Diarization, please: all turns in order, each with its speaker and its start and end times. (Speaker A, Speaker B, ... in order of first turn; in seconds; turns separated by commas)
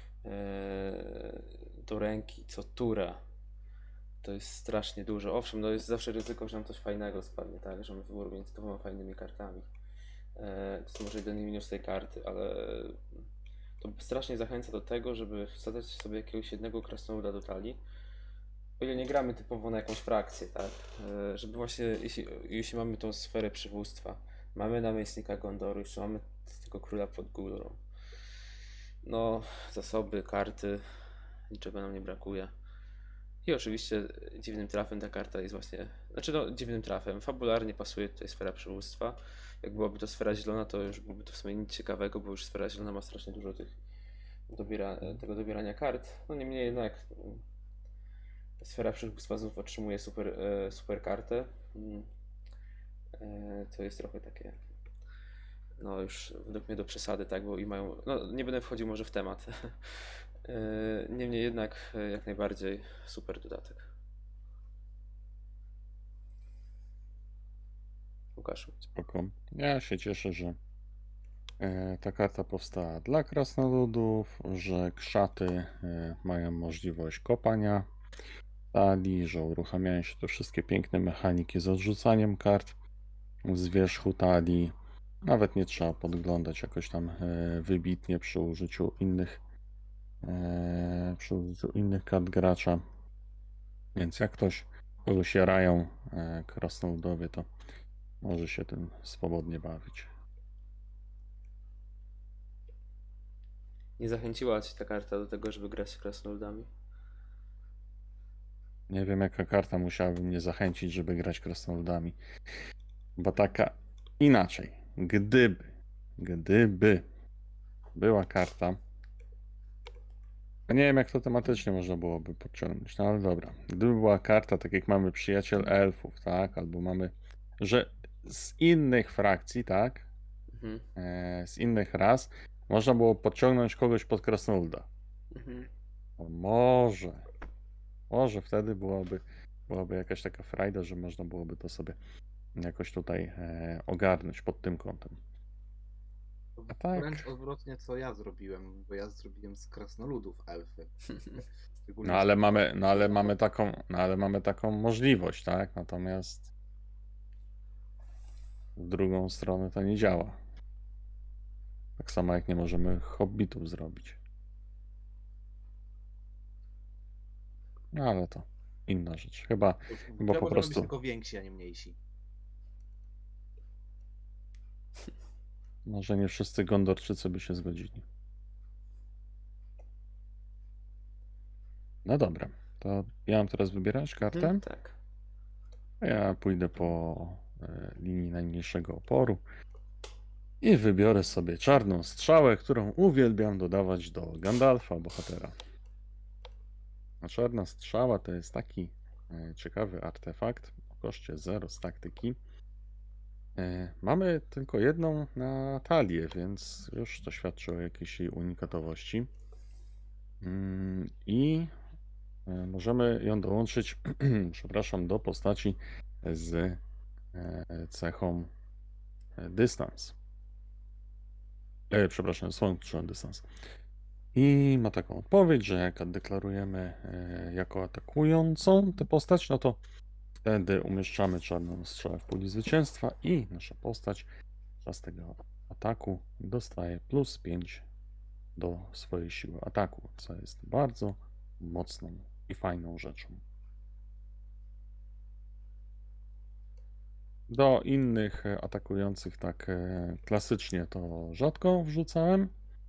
Speaker A: 0.2-3.2, Speaker A: 4.2-9.7, Speaker A: 10.3-13.0, Speaker A: 13.8-17.8, Speaker A: 18.8-27.8, Speaker A: 29.0-30.8, Speaker A: 31.5-32.5, Speaker A: 33.4-43.8, Speaker A: 44.5-47.4, Speaker A: 48.6-52.1, Speaker A: 53.2-54.6, Speaker A: 55.8-63.9, Speaker A: 68.3-68.8, Speaker B: 68.8-70.6, Speaker B: 71.6-77.9, Speaker B: 78.7-82.7, Speaker B: 83.4-89.4, Speaker B: 90.2-92.8, Speaker B: 93.9-97.5, Speaker B: 98.2-100.1, Speaker A: 104.0-106.7, Speaker B: 108.9-112.2, Speaker B: 113.2-117.0, Speaker B: 117.9-118.8, Speaker B: 120.7-130.1, Speaker A: 130.5-130.8, Speaker B: 130.9-134.9, Speaker A: 135.3-135.7, Speaker B: 136.2-137.2, Speaker B: 138.1-142.0, Speaker B: 142.5-145.2, Speaker C: 146.6-153.3, Speaker B: 146.7-147.3, Speaker B: 152.0-156.5, Speaker B: 158.8-160.4, Speaker B: 162.0-164.2, Speaker B: 167.9-170.9, Speaker C: 169.9-171.9, Speaker B: 175.8-178.0, Speaker B: 182.0-184.6, Speaker A: 184.3-185.0, Speaker B: 186.0-189.4, Speaker B: 190.6-195.6, Speaker B: 197.2-202.4, Speaker B: 203.6-209.3, Speaker B: 210.4-211.7, Speaker B: 212.4-216.8, Speaker B: 217.3-218.5, Speaker B: 219.4-220.1, Speaker B: 221.9-223.4, Speaker B: 224.3-229.8, Speaker B: 230.4-234.3, Speaker B: 234.8-237.8, Speaker B: 238.6-243.4, Speaker B: 247.5-252.5